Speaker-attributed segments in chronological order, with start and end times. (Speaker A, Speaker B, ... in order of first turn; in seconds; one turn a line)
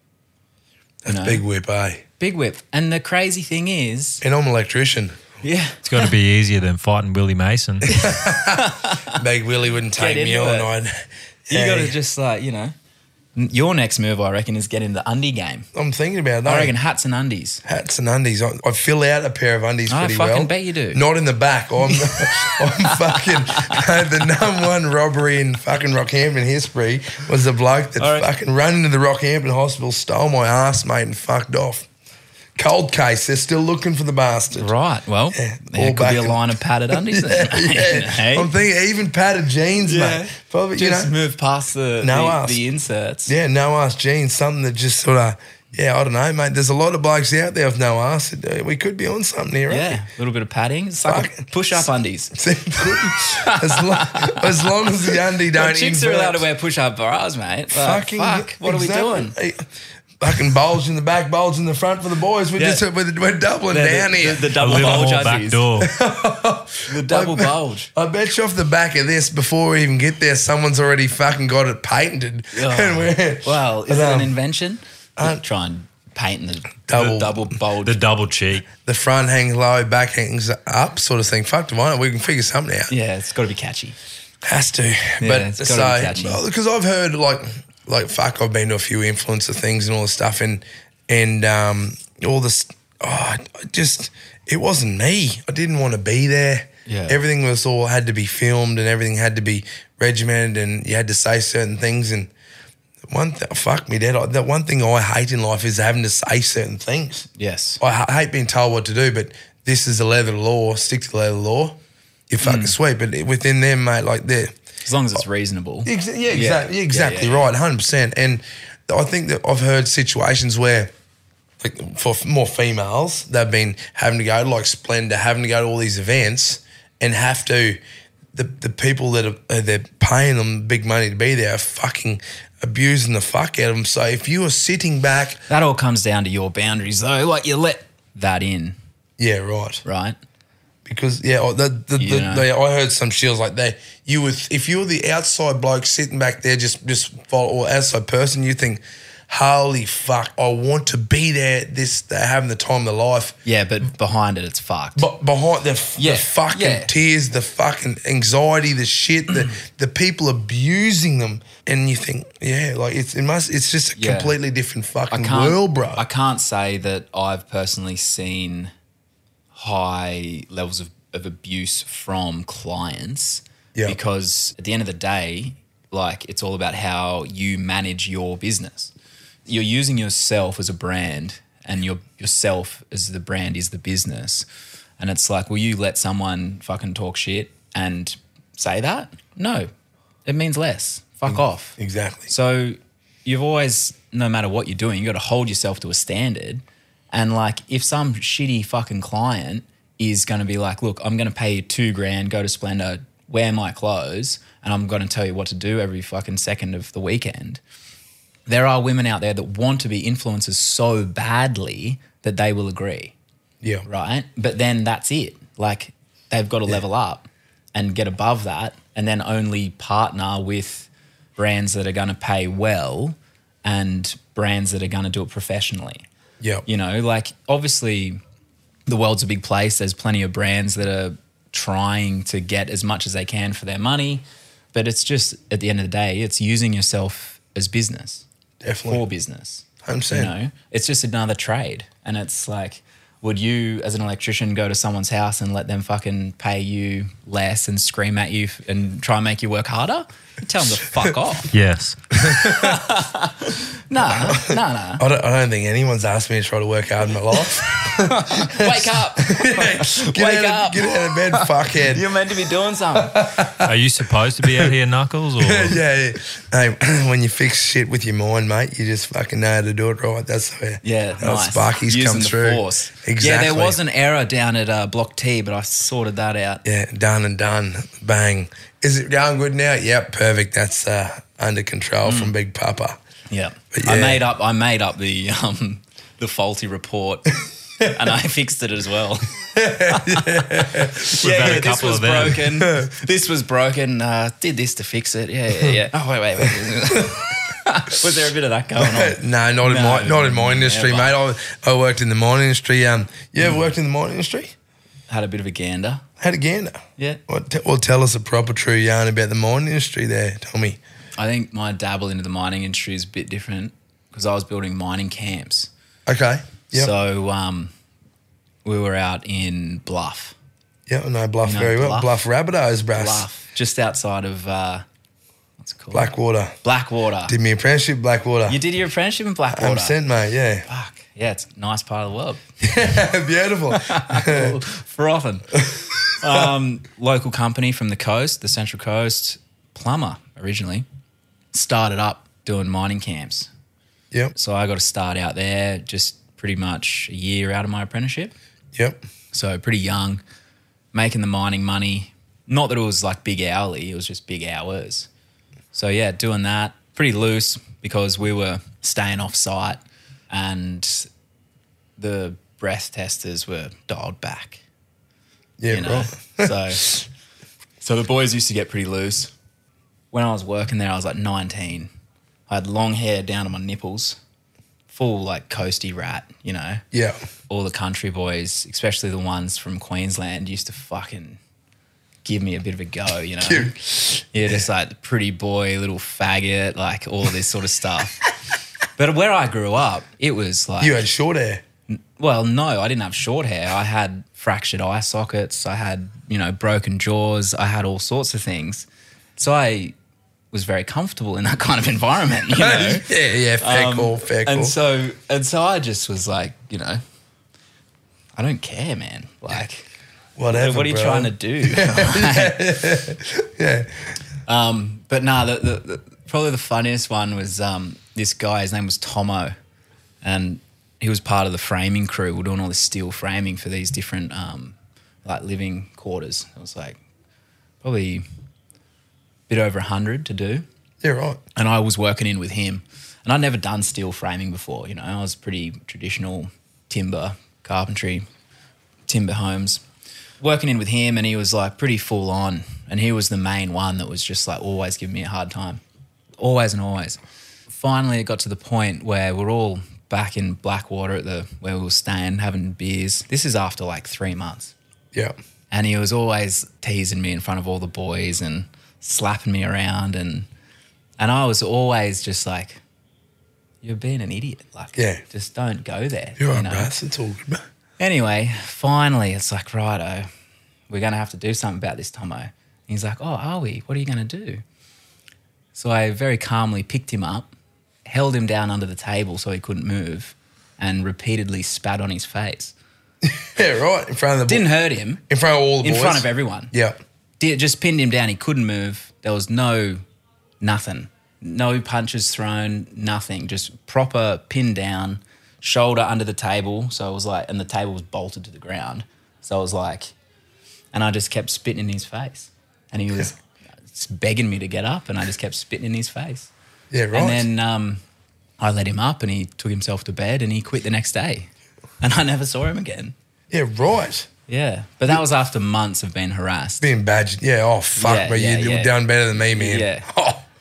Speaker A: 1.1-2.0
Speaker B: 1.1-1.4
Speaker B: 2.2-4.2
Speaker A: 4.2-5.2
Speaker B: 5.4-6.1
Speaker C: 5.9-7.8
Speaker A: 7.9-11.9
Speaker B: 7.9-9.2
Speaker B: 10.0-10.7
Speaker B: 11.5-12.8
Speaker B: 13.3-15.7
Speaker A: 15.7-16.7
Speaker B: 16.4-17.6
Speaker A: 17.6-31.9
Speaker B: 19.9-21.0
Speaker B: 21.9-23.9
Speaker B: 28.0-28.3
Speaker A: 32.6-34.7
Speaker B: 34.5-38.5
Speaker A: 35.3-41.1
Speaker B: 39.8-43.3
Speaker A: 42.0-42.6
Speaker A: 43.3-50.0
Speaker B: 49.7-55.0
Speaker A: 51.1-56.5
Speaker B: 55.5-59.4
Speaker A: 57.7-59.7
Speaker A: 60.2-65.3
Speaker B: 62.6-62.8
Speaker B: 63.7-65.7
Speaker C: 64.7-65.8
Speaker A: 65.8-74.3
Speaker B: 66.9-67.9
Speaker B: 72.5-78.0
Speaker A: 76.9-77.5
Speaker C: 78.1-78.6
Speaker A: 78.8-82.9
Speaker B: 82.9-84.0
Speaker A: 84.4-102.3
Speaker B: 85.2-86.4
Speaker B: 96.9-97.2
Speaker A: 103.1-107.3
Speaker B: 107.4-107.8
Speaker A: 107.8-111.8
Speaker A: 112.3-114.5
Speaker B: 112.4-112.8
Speaker B: 114.8-117.4
Speaker A: 115.8-120.9
Speaker A: 121.6-127.8
Speaker A: 128.3-135.4
Speaker B: 135.5-138.8
Speaker A: 139.2-139.8
Speaker B: 139.8-140.2
Speaker A: 140.8-153.4
Speaker B: 142.0-142.5
Speaker B: 153.4-155.1
Speaker A: 155.0-166.0
Speaker B: 156.0-156.9
Speaker B: 164.0-164.4
Speaker B: 165.1-168.7
Speaker B: 169.5-178.9
Speaker B: 179.5-184.5
Speaker B: 185.0-189.7
Speaker B: 190.2-207.6
Speaker A: 191.3-192.3
Speaker B: 208.5-213.1
Speaker B: 213.9-226.1
Speaker B: 226.7-228.2
Speaker B: 228.9-238.2
Speaker A: 238.6-239.1
Speaker B: 238.9-251.5
Speaker A: 239.8-240.3
Speaker A: 252.2-252.8
Speaker B: 252.2-255.0
Speaker A: 254.0-262.1
Speaker B: 257.8-263.3
Speaker A: 262.9-263.8
Speaker A: 264.4-264.7
Speaker A: 265.4-273.8
Speaker B: 270.8-276.6
Speaker A: 276.6-283.0
Speaker B: 282.1-282.3
Speaker B: 283.3-301.2
Speaker A: 283.7-284.2
Speaker A: 289.6-291.8
Speaker A: 292.4-292.9
Speaker A: 296.6-297.2
Speaker A: 298.8-304.5
Speaker B: 305.1-306.0
Speaker A: 306.2-310.8
Speaker B: 311.2-315.7
Speaker A: 316.1-316.9
Speaker B: 316.7-317.7
Speaker B: 318.6-320.4
Speaker A: 320.9-323.3
Speaker B: 321.4-322.2
Speaker B: 322.9-324.9
Speaker B: 325.6-326.1
Speaker A: 325.9-326.6
Speaker B: 326.6-327.4
Speaker A: 327.3-328.6
Speaker B: 328.5-330.0
Speaker A: 329.5-330.7
Speaker B: 330.7-332.4
Speaker A: 332.6-334.6
Speaker B: 333.7-335.7
Speaker A: 335.5-336.5
Speaker B: 336.2-340.9
Speaker B: 341.5-343.5
Speaker B: 344.4-348.4
Speaker A: 348.7-349.0
Speaker B: 349.3-350.2
Speaker B: 350.9-355.1
Speaker B: 355.7-361.1
Speaker B: 362.0-364.6
Speaker A: 365.6-367.0
Speaker B: 365.7-367.0
Speaker B: 367.8-369.3
Speaker B: 370.1-371.9
Speaker B: 372.5-374.2
Speaker B: 374.9-376.8
Speaker A: 376.9-377.2
Speaker B: 377.5-381.4
Speaker B: 382.2-388.2
Speaker A: 383.4-384.6
Speaker B: 389.0-391.0
Speaker A: 390.8-391.6
Speaker B: 391.9-398.9
Speaker B: 399.4-399.9
Speaker B: 400.5-403.1
Speaker A: 402.5-404.8
Speaker B: 403.6-407.0
Speaker B: 408.4-409.9
Speaker A: 410.4-414.1
Speaker B: 410.5-412.8
Speaker B: 414.5-419.6
Speaker B: 420.2-427.0
Speaker B: 427.8-428.2
Speaker B: 429.5-430.6
Speaker A: 431.0-431.4
Speaker B: 431.6-438.3
Speaker B: 439.1-439.8
Speaker B: 440.4-445.8
Speaker B: 446.4-454.7
Speaker B: 455.7-460.5
Speaker B: 461.2-462.8
Speaker B: 463.8-466.9
Speaker A: 465.0-465.2
Speaker A: 466.4-467.6
Speaker B: 468.0-470.3
Speaker B: 470.9-474.6
Speaker B: 475.8-477.5
Speaker B: 478.1-482.7
Speaker A: 483.2-484.7
Speaker B: 484.5-485.2
Speaker A: 485.3-487.0
Speaker B: 485.8-486.7
Speaker B: 487.4-490.0
Speaker B: 490.6-500.1
Speaker B: 500.9-503.4
Speaker B: 503.9-506.5
Speaker A: 506.9-507.5
Speaker B: 507.1-508.0
Speaker B: 508.6-513.1
Speaker A: 513.5-514.3
Speaker B: 514.5-516.9
Speaker A: 516.8-520.5
Speaker B: 518.0-519.0
Speaker B: 519.5-520.1